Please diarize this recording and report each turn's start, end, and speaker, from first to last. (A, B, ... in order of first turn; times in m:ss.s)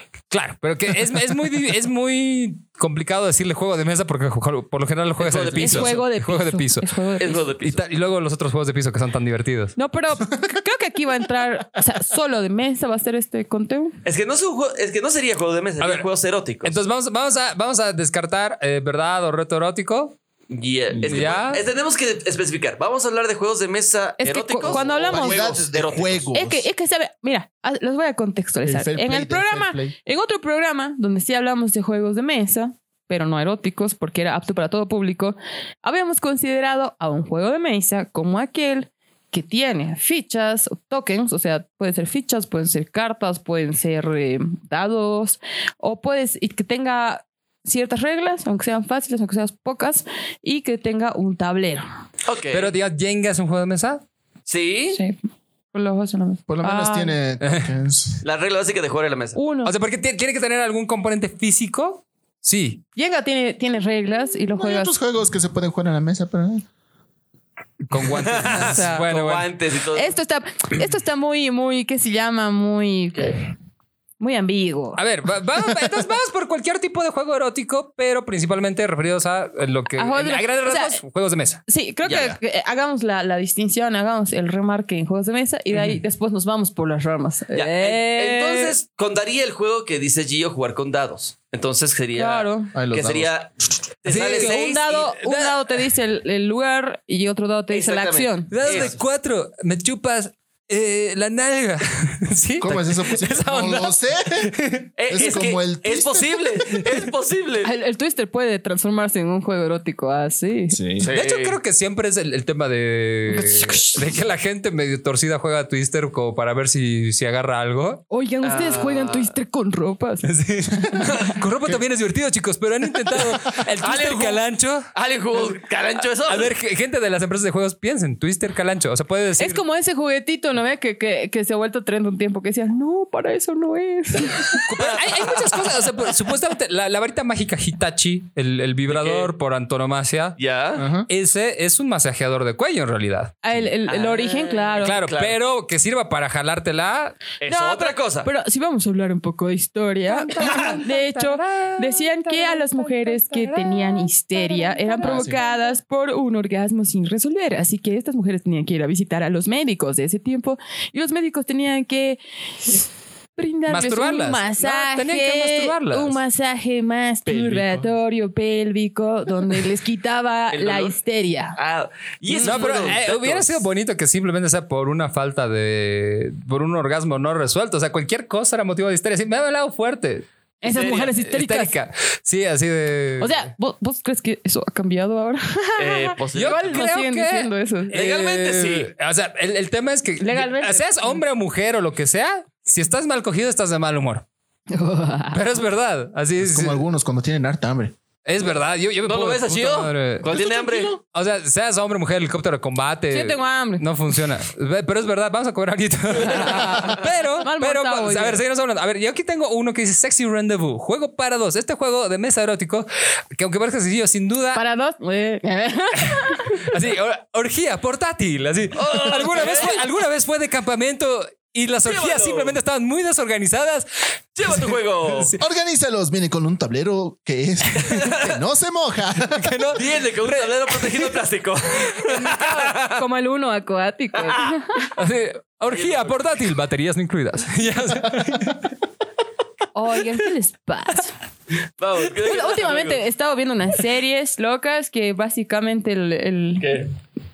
0:00.3-0:06.9 A
0:05.2-0:06.0 B
0:05.6-0:07.5 C
0:07.2-0:07.8 B
0:07.6-0:09.7 A
0:09.8-0:14.0 C
0:14.0-0:16.8 B
0:15.8-0:16.1 A
0:16.6-0:20.2 A
0:20.5-0:26.3 B
0:21.0-0:21.6 A
0:24.2-0:25.5 C
0:24.6-0:26.7 D
0:26.3-0:51.9 C
0:28.6-0:29.9 D
0:52.2-0:52.7 B
0:52.5-0:54.0 A
0:54.5-0:55.0 B
0:55.7-0:57.1 C
0:56.5-0:58.2 D
0:57.4-0:57.7 A
0:58.2-0:59.4 B
0:59.4-0:59.7 C
0:59.6-1:02.8 A
1:03.0-1:04.9 C
1:04.6-1:06.6 D
1:07.8-1:09.5 A
1:08.1-1:10.2 B
1:08.4-1:09.1 C
1:09.9-1:13.5 C
1:14.2-1:15.0 C
1:15.0-1:21.6 A
1:20.0-1:21.0 C
1:21.7-1:28.7 C
1:22.0-1:22.4 B
1:27.5-1:35.2 B
1:32.2-1:32.7 C
1:32.7-1:33.3 D
1:34.0-1:35.6 A
1:34.3-1:38.8 C
1:37.7-1:39.0 B
1:38.5-1:44.9 A
1:42.6-1:44.5 D
1:45.0-1:47.7 B
1:45.1-1:46.4 D
1:47.6-1:50.8 C
1:50.7-1:51.1 D
1:51.0-1:51.6 B
1:51.0-1:58.0 A
1:53.3-1:54.1 C
1:58.1-2:00.3 C
1:58.4-1:59.3 B
2:00.2-2:04.9 A
2:01.1-2:01.4 B
2:03.8-2:06.5 B
2:06.2-2:09.6 A
2:09.4-2:14.7 C
2:14.6-2:20.4 A
2:14.7-2:15.7 B
2:18.9-2:19.3 B
2:20.4-2:20.9 B
2:20.8-2:21.1 D
2:21.1-2:23.4 A
2:23.4-2:25.0 C
2:23.9-2:25.4 B
2:24.8-2:27.2 A
2:27.4-2:28.3 B
2:27.5-2:42.8 C
2:30.1-2:35.7 A
2:35.0-2:35.4 D
2:43.4-2:51.6 C
2:43.7-2:46.2 A
2:47.3-2:47.8 A
2:50.5-2:51.0 B
2:51.6-2:53.6 B
2:52.3-2:52.9 C
2:52.4-3:00.3 A
3:00.6-3:01.7 C
3:00.6-3:01.1 B
3:01.1-3:03.5 A
3:03.2-3:07.9 C
3:05.8-3:06.9 B
3:06.3-3:14.2 A
3:07.9-3:08.9 B
3:10.2-3:11.2 C
3:14.7-3:15.4 C
3:15.3-3:16.8 A
3:16.4-3:17.9 D
3:18.2-3:20.3 A
3:19.0-3:21.0 B
3:20.2-3:21.0 D
3:21.1-3:34.6 A
3:23.1-3:23.9 C
3:26.3-3:28.4 C
3:34.5-3:36.7 C
3:36.1-3:43.9 A
3:38.7-3:39.8 B
3:41.8-3:42.6 B
3:44.4-3:45.3 B
3:44.4-3:45.4 A
3:45.4-3:49.5 D
3:47.8-3:48.4 B
3:49.3-3:51.1 A
3:49.8-3:53.0 B
3:52.2-3:54.9 C
3:54.3-3:54.5 B
3:55.0-3:58.6 A
3:55.7-3:56.2 B
3:59.7-4:01.1 C
4:01.8-4:03.0 B
4:02.2-4:06.8 C
4:06.6-4:06.9 B